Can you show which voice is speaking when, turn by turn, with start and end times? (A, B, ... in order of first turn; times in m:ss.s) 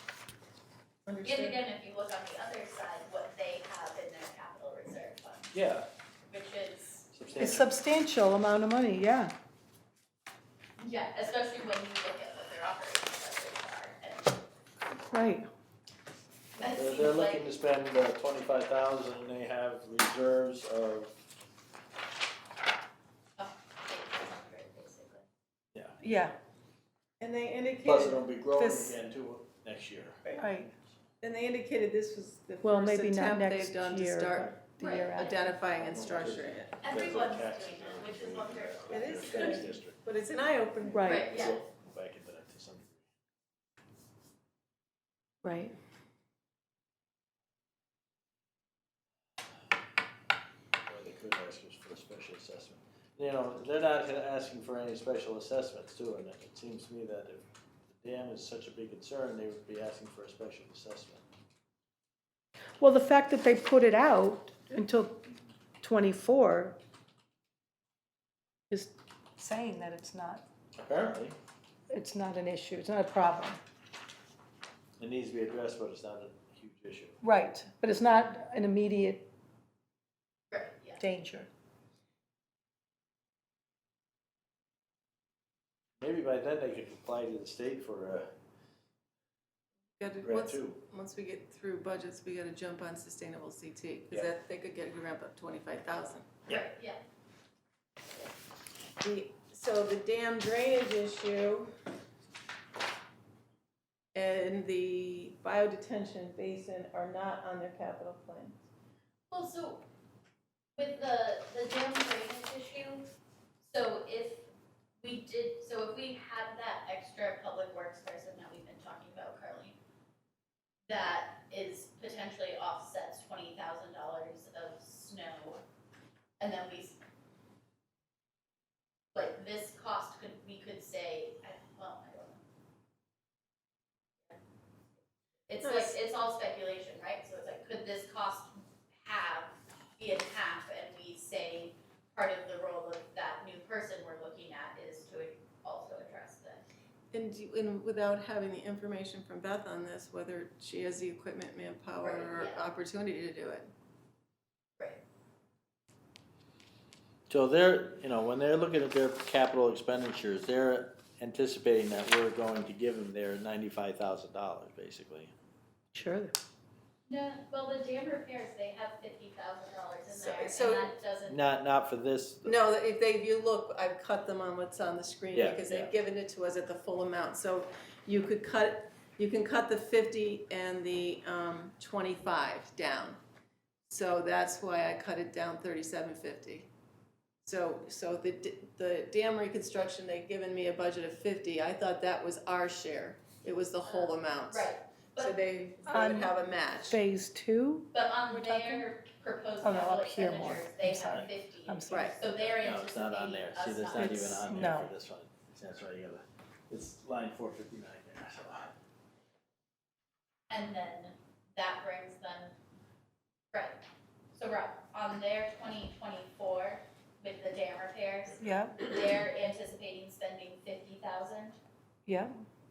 0:01.0-0:01.6 A
0:01.2-0:05.5 B
0:05.5-0:05.9 C
0:06.3-0:07.1 B
0:07.1-0:07.7 C
0:07.4-0:09.3 D
0:10.8-0:14.4 B
0:15.1-0:15.5 D
0:16.6-0:21.1 C
0:16.6-0:17.5 B
0:23.4-0:25.2 B
0:26.0-0:26.3 D
0:27.2-0:28.2 A
0:27.8-0:30.3 C
0:28.6-0:29.0 D
0:30.3-0:30.7 D
0:31.2-0:36.8 A
0:32.6-0:35.4 D
0:34.8-0:35.5 B
0:35.7-0:40.0 C
0:36.8-0:39.7 B
0:38.9-0:41.2 A
0:40.9-0:41.3 D
0:41.0-0:41.6 B
0:41.2-0:43.0 C
0:45.4-0:45.7 D
0:50.9-1:01.2 C
1:02.8-1:05.3 D
1:05.8-1:06.8 D
1:08.7-1:10.4 D
1:10.8-1:11.4 C
1:11.9-1:13.6 D
1:15.0-1:17.2 C
1:17.2-1:19.3 D
1:20.5-1:21.0 B
1:21.0-1:21.5 D
1:26.0-1:28.3 C
1:30.0-1:36.3 A
1:30.2-1:30.8 C
1:36.5-1:37.0 B
1:39.0-1:41.7 A
1:44.1-1:48.6 A
1:49.3-1:49.8 B
1:50.8-1:53.1 B
1:53.6-1:54.5 B
1:55.0-1:59.8 B
2:00.9-2:05.6 B
2:06.4-2:07.0 B
2:09.1-2:12.4 B
2:15.5-2:26.6 B
2:15.6-2:15.9 A
2:27.1-2:33.7 A
2:32.0-2:32.7 B
2:37.3-2:45.3 C
2:45.9-2:46.3 D
2:47.1-2:51.4 B
2:50.1-2:50.9 A
2:51.3-2:52.5 C
2:52.4-3:03.2 A
2:55.3-2:55.9 C
3:03.9-3:06.7 A
3:07.4-3:17.0 A
3:13.8-3:15.4 B
3:15.9-3:16.3 D
3:16.8-3:18.8 D
3:17.9-3:24.5 B
3:19.6-3:22.2 D
3:21.9-3:22.1 A
3:22.4-3:28.7 C
3:24.0-3:24.9 D
3:30.5-3:32.6 B
3:33.5-3:33.8 B
3:34.3-3:41.6 B
3:38.4-3:38.8 D
3:42.1-3:42.3 D